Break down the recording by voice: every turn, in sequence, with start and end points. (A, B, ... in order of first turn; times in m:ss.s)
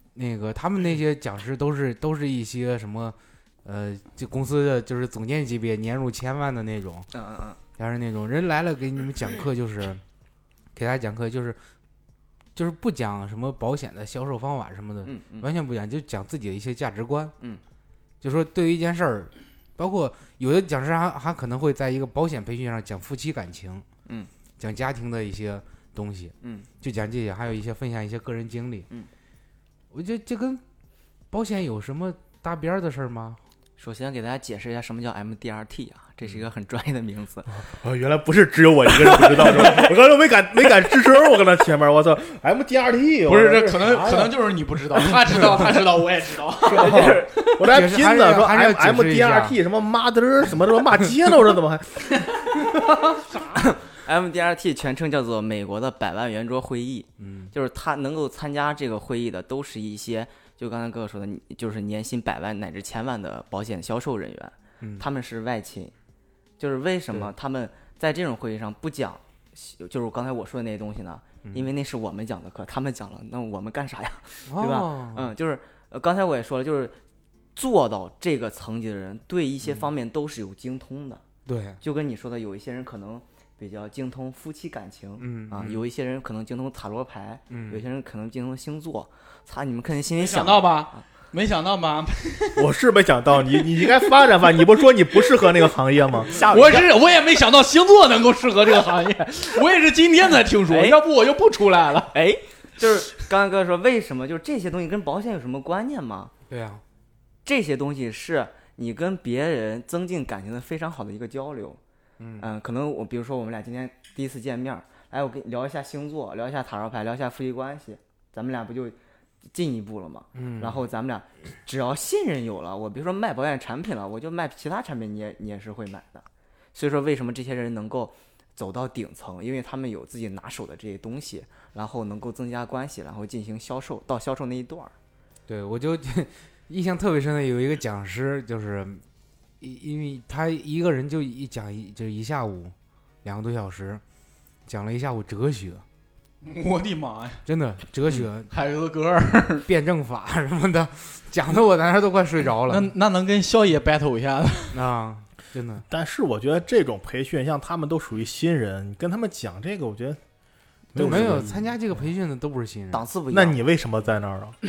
0:00.2-0:07.1 A
0:07.1-0:07.6 B
0:07.8-0:10.0 A
0:10.8-0:11.6 A
0:12.6-0:17.4 A
0:15.0-0:15.5 B
0:18.2-0:23.9 A
0:24.1-0:24.3 B
0:24.6-0:28.9 A
0:26.4-0:26.7 B
0:29.9-0:30.6 A
0:31.3-0:33.4 A
0:33.8-0:37.7 B
0:37.6-0:44.3 C
0:39.4-0:39.8 D
0:43.3-0:47.5 D
0:46.7-0:47.4 B
0:46.7-0:52.7 C
0:47.7-0:49.6 A
0:53.2-0:53.8 D
0:54.0-1:05.9 B
0:57.2-0:57.5 A
1:06.6-1:17.0 B
1:14.5-1:15.3 A
1:17.6-1:21.2 B
1:21.5-1:21.8 A
1:21.8-1:31.0 B
1:25.2-1:25.8 A
1:27.5-1:27.8 A
1:30.2-1:32.7 D
1:32.6-1:36.4 C
1:33.5-1:35.7 D
1:36.3-1:36.9 B
1:36.4-1:42.1 D
1:40.7-1:41.0 B
1:42.1-1:46.3 B
1:46.5-1:46.8 A
1:47.4-1:51.8 B
1:52.2-1:52.5 A
1:52.4-1:59.0 B
1:59.5-2:14.9 B
2:00.4-2:00.8 A
2:15.5-2:19.0 A
2:19.6-2:24.0 A
2:24.7-2:25.8 A
2:26.4-2:27.4 D
2:27.5-2:28.5 A
2:28.5-2:29.7 D
2:29.7-2:33.0 A
2:32.7-2:34.8 D
2:34.7-2:35.9 A
2:35.9-2:40.2 C
2:40.9-2:42.0 C
2:40.9-2:43.0 A
2:42.9-2:43.6 B
2:43.3-2:44.6 C